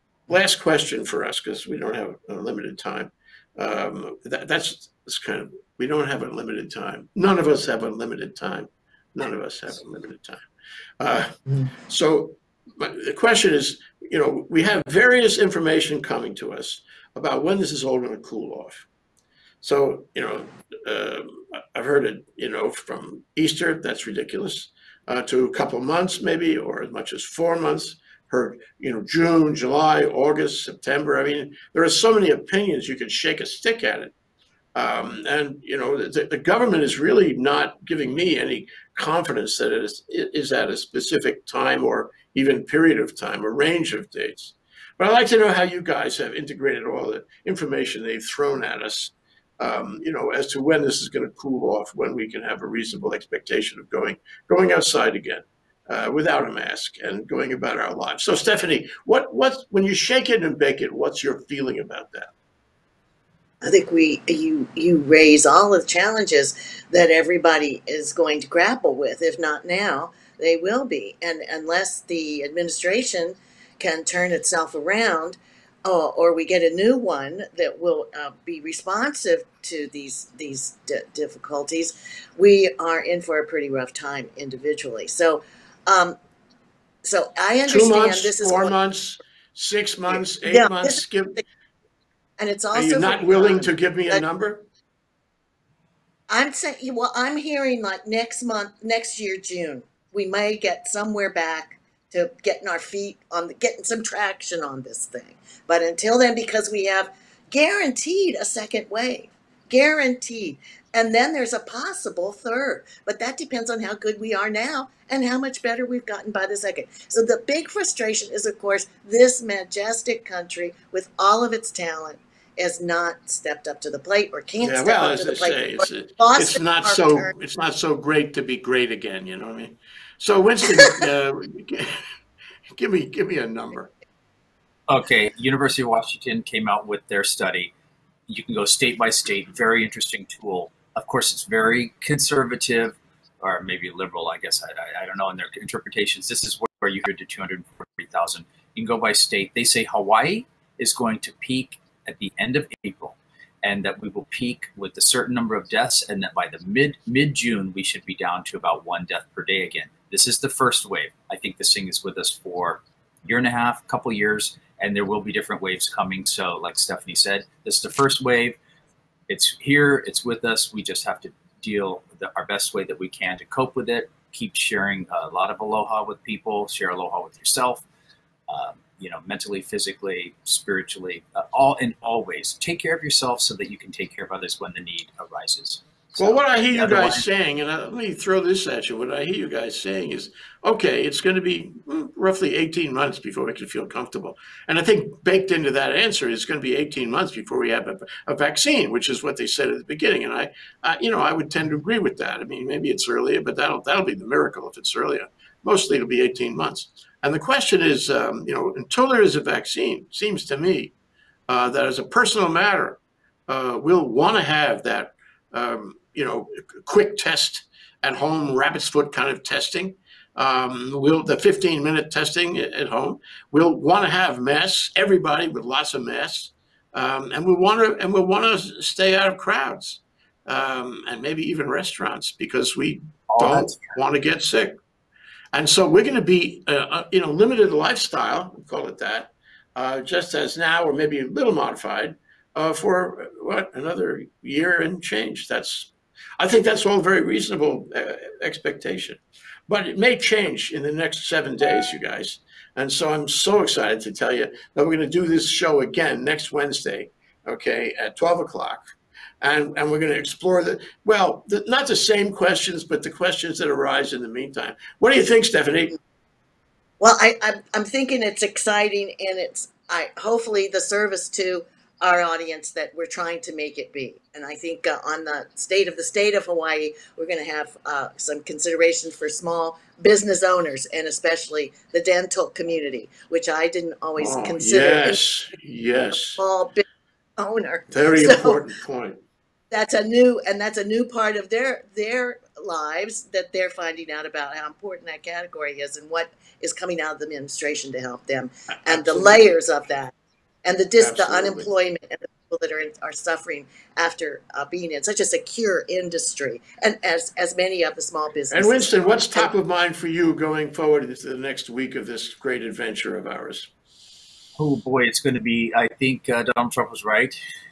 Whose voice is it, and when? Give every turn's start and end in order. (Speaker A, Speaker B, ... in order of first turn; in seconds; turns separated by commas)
Speaker A: 0.3-10.4, Speaker A: 11.0-18.9, Speaker A: 19.6-34.1, Speaker A: 34.8-62.3, Speaker B: 63.6-86.2, Speaker B: 87.0-88.7, Speaker A: 87.7-91.4, Speaker B: 90.4-91.0, Speaker B: 92.4-94.2, Speaker A: 92.7-94.7, Speaker B: 96.3-127.3, Speaker A: 124.6-132.0, Speaker A: 132.7-133.9, Speaker C: 134.9-137.7, Speaker C: 138.3-168.6, Speaker C: 169.3-177.8, Speaker C: 178.5-187.2, Speaker A: 186.2-210.9, Speaker A: 211.5-234.8, Speaker C: 233.3-233.9, Speaker A: 235.5-258.8, Speaker A: 259.4-266.0, Speaker B: 267.0-285.2, Speaker A: 284.2-286.4, Speaker B: 286.4-286.8, Speaker B: 287.4-288.6, Speaker A: 287.9-289.2, Speaker B: 289.7-300.1, Speaker A: 298.9-299.5, Speaker B: 300.6-309.5, Speaker A: 301.0-301.7, Speaker A: 308.5-313.7, Speaker C: 314.6-317.4